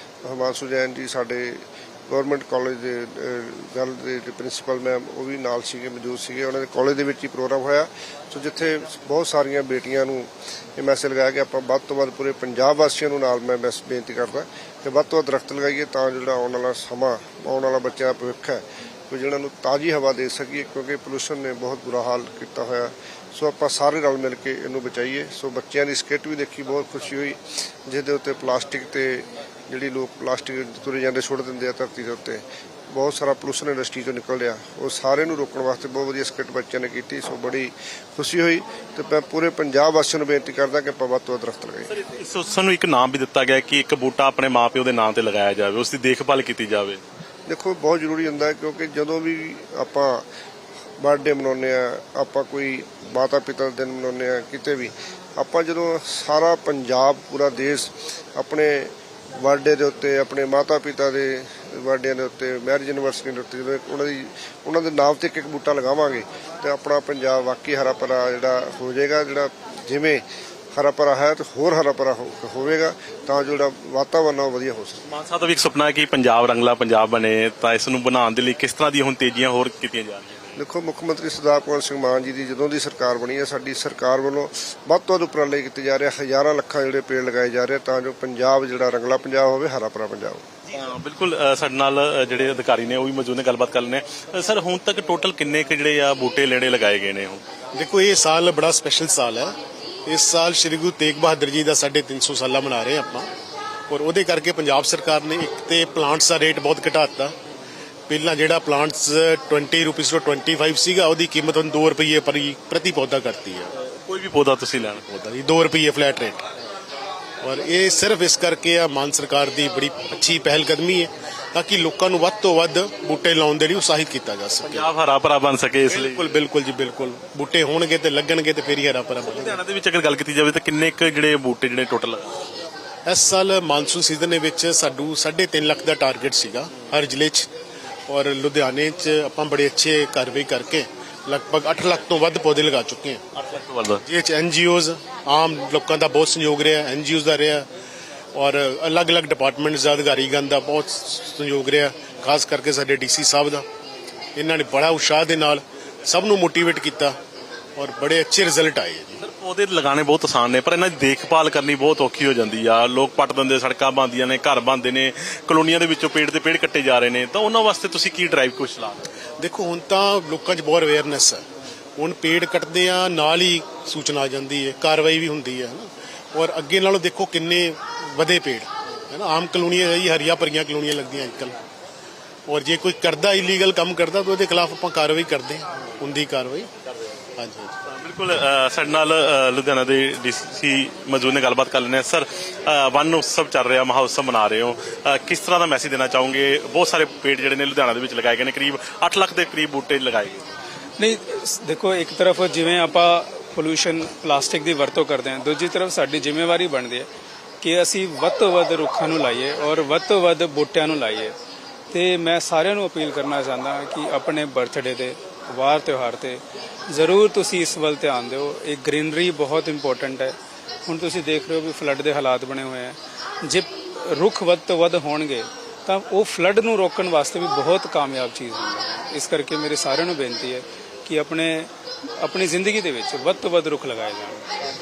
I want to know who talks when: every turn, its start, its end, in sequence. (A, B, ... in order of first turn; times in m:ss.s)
0:00.2-0:41.9 A
0:41.9-0:47.0 B
0:47.5-0:50.2 A
0:51.0-1:10.2 A
1:10.7-1:15.0 A
1:15.0-1:20.5 B
1:20.6-1:30.4 A
1:30.7-1:37.4 B
1:37.7-1:39.5 C
1:40.0-1:43.3 C
1:43.9-1:47.3 C
1:48.1-1:53.7 C
1:54.0-1:55.0 B
1:55.1-1:56.4 C
1:57.4-2:04.9 C
2:04.6-2:06.3 B
2:05.9-2:09.6 C
2:09.2-2:12.2 B
2:13.0-2:17.5 C
2:18.1-2:23.2 C
2:23.3-2:24.0 B
2:24.0-2:27.7 C
2:28.3-2:33.6 C
2:34.4-2:37.2 C
2:37.8-2:39.2 C
2:39.2-2:49.1 B
2:49.4-2:51.4 C
2:52.0-3:01.6 C
3:02.5-3:06.7 C
3:07.4-3:07.8 C
3:07.9-3:20.4 B
3:21.0-3:27.0 D
3:27.6-3:31.3 D
3:31.9-3:54.5 D